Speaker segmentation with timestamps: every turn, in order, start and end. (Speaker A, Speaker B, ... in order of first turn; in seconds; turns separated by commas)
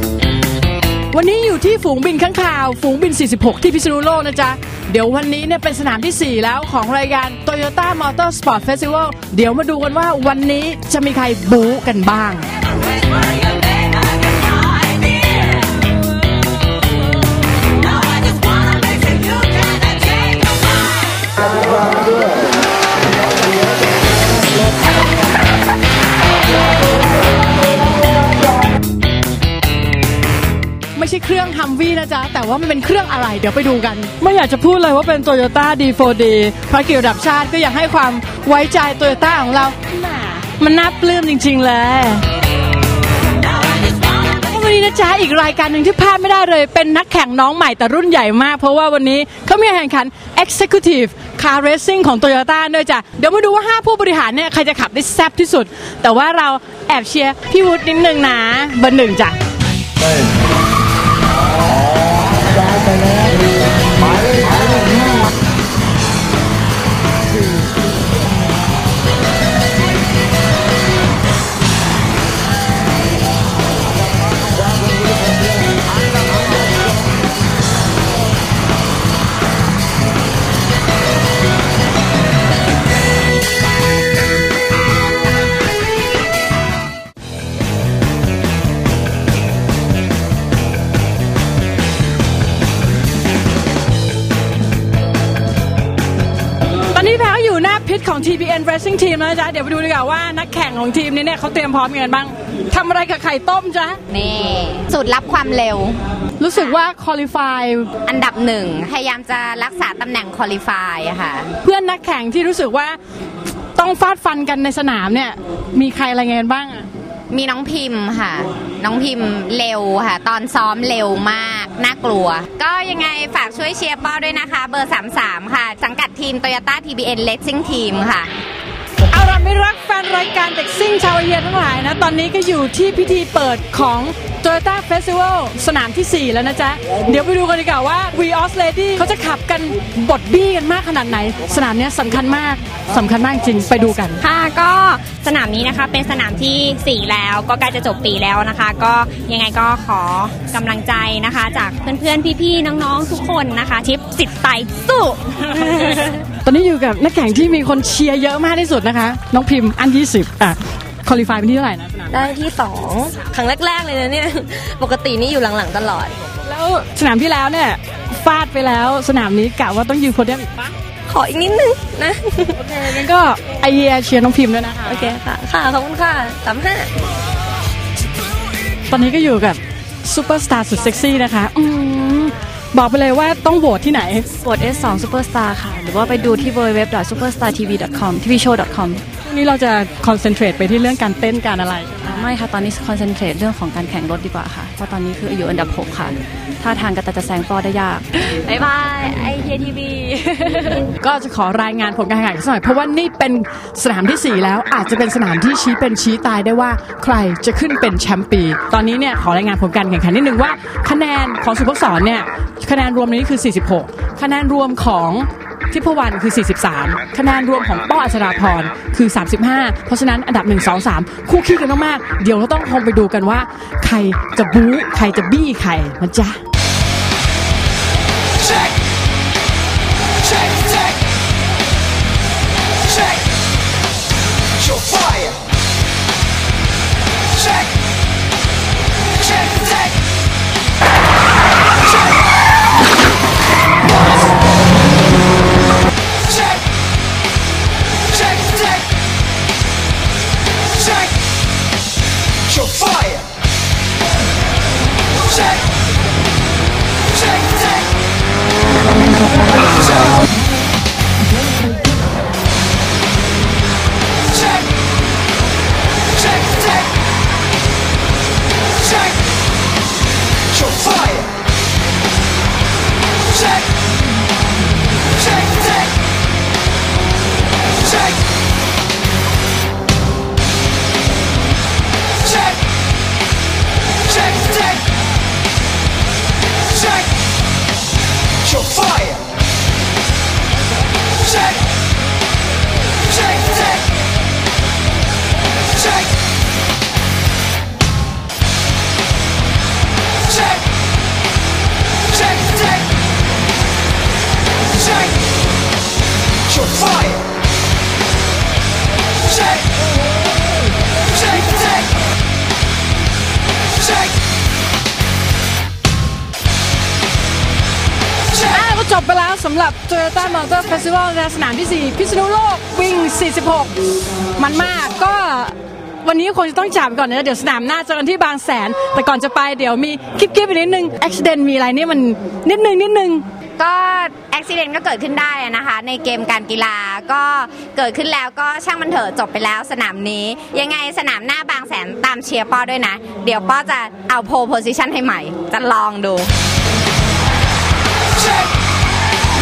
Speaker A: 1.1-12.5, Speaker A: 30.9-42.2, Speaker A: 44.3-59.4, Speaker A: 96.9-104.0, Speaker B: 104.1-106.0, Speaker A: 106.4-107.9, Speaker B: 108.1-111.5, Speaker A: 111.6-113.0, Speaker A: 113.8-116.8, Speaker B: 117.3-128.3, Speaker A: 129.1-144.2, Speaker C: 144.2-156.2, Speaker A: 156.3-162.2, Speaker D: 162.1-166.1, Speaker A: 166.4-170.7, Speaker D: 171.1-172.5, Speaker A: 172.6-175.2, Speaker D: 174.9-176.9, Speaker A: 178.9-184.3, Speaker E: 184.4-189.0, Speaker A: 189.2-192.1, Speaker E: 192.0-198.3, Speaker A: 200.9-226.4, Speaker A: 318.3-323.7, Speaker A: 324.4-333.2, Speaker B: 333.6-346.3